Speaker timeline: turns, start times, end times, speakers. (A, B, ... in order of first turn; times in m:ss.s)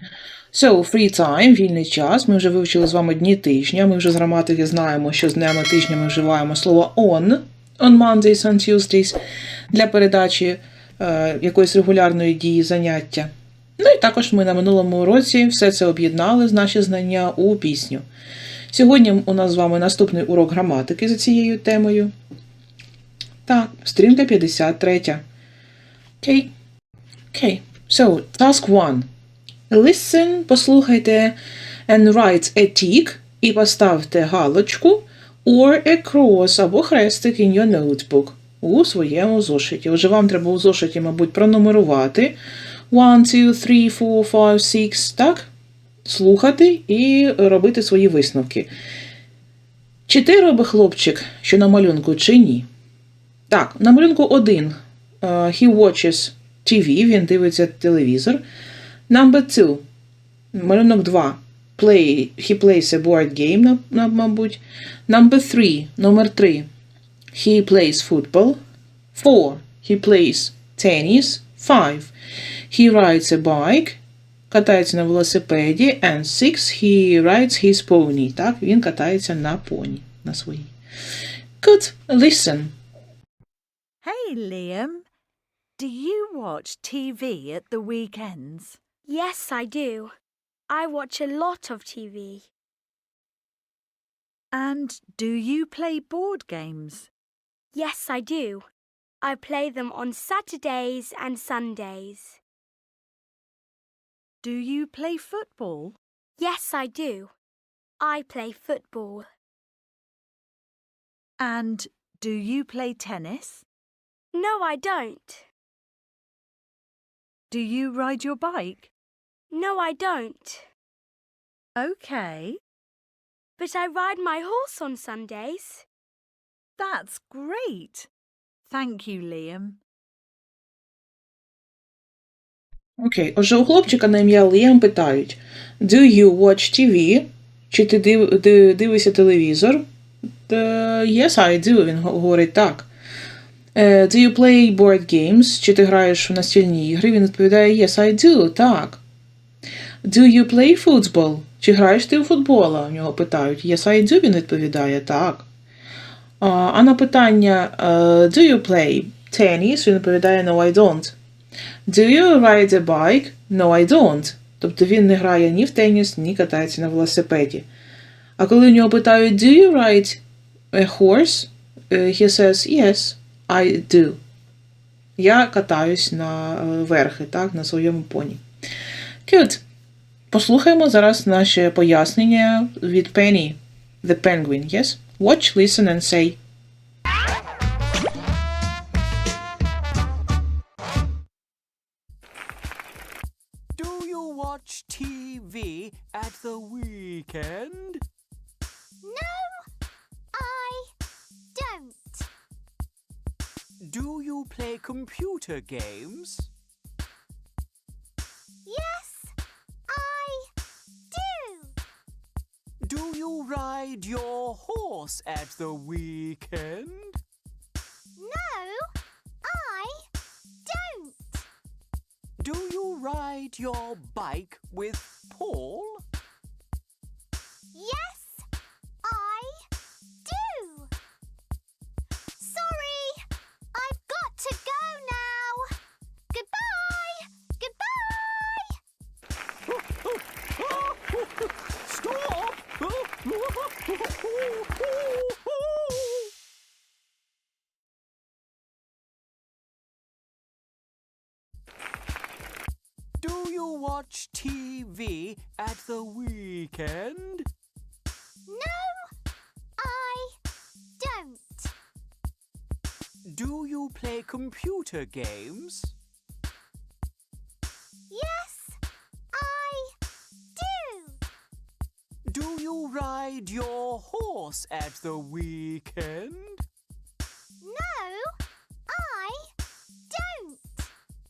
0:00.5-0:09.2 A
0:09.7-0:18.0 A
0:18.7-0:22.1 A
0:23.5-0:25.2 A
0:26.2-0:26.5 A
0:27.3-0:29.1 A
0:29.7-0:31.4 A
0:31.9-0:42.4 A
0:42.9-0:45.5 A
0:46.0-0:48.7 A
0:50.1-0:52.7 A
0:53.5-0:58.4 A
0:59.1-0:59.8 A
1:00.5-1:06.7 A
1:07.3-1:08.6 A
1:09.1-1:12.1 A
1:12.7-1:20.7 A
1:21.6-1:22.8 A
1:24.0-1:25.1 B
1:25.8-1:28.8 B
1:29.1-1:30.1 C
1:30.7-1:32.5 C
1:34.5-1:37.1 B
1:37.7-1:38.7 C
1:39.2-1:42.4 C
1:44.4-1:46.0 B
1:46.4-1:47.3 C
1:48.0-1:49.3 C
1:51.4-1:53.7 B
1:54.3-1:55.5 C
1:57.5-1:58.9 B
1:59.5-2:00.7 C
2:01.8-2:02.6 B
2:03.6-2:05.8 C
2:06.8-2:08.1 B
2:08.7-2:09.8 B
2:13.0-2:19.8 A
2:20.5-2:22.9 A
2:23.8-2:29.0 A
2:30.0-2:35.5 A
2:36.4-2:41.2 A
2:41.9-2:47.7 A
2:48.4-2:50.2 A
2:50.7-2:54.2 A
2:55.2-2:58.4 A
2:59.3-2:59.6 A
3:00.3-3:06.4 A
3:13.8-3:18.0 D
3:19.0-3:19.6 E
3:20.3-3:20.9 E
3:21.6-3:22.3 E
3:23.8-3:26.5 D
3:28.6-3:29.3 E
3:29.9-3:30.5 E
3:31.1-3:31.8 E
3:32.8-3:37.2 D
3:38.2-3:38.9 E
3:39.4-3:40.0 E
3:40.6-3:41.4 E
3:42.4-3:46.0 D
3:47.7-3:48.4 E
3:49.0-3:49.6 E
3:50.2-3:50.9 E
3:52.4-3:53.2 E
3:53.7-3:55.7 E
3:56.3-3:58.8 E
4:00.6-4:01.3 D
4:01.8-4:06.3 D
4:13.2-4:17.5 D
4:18.5-4:19.1 E
4:19.8-4:20.4 E
4:21.0-4:21.7 E
4:23.3-4:25.9 D
4:28.1-4:28.8 E
4:29.3-4:29.9 E
4:30.6-4:31.2 E
4:32.3-4:36.6 D
4:37.6-4:38.3 E
4:38.9-4:39.5 E
4:40.1-4:40.9 E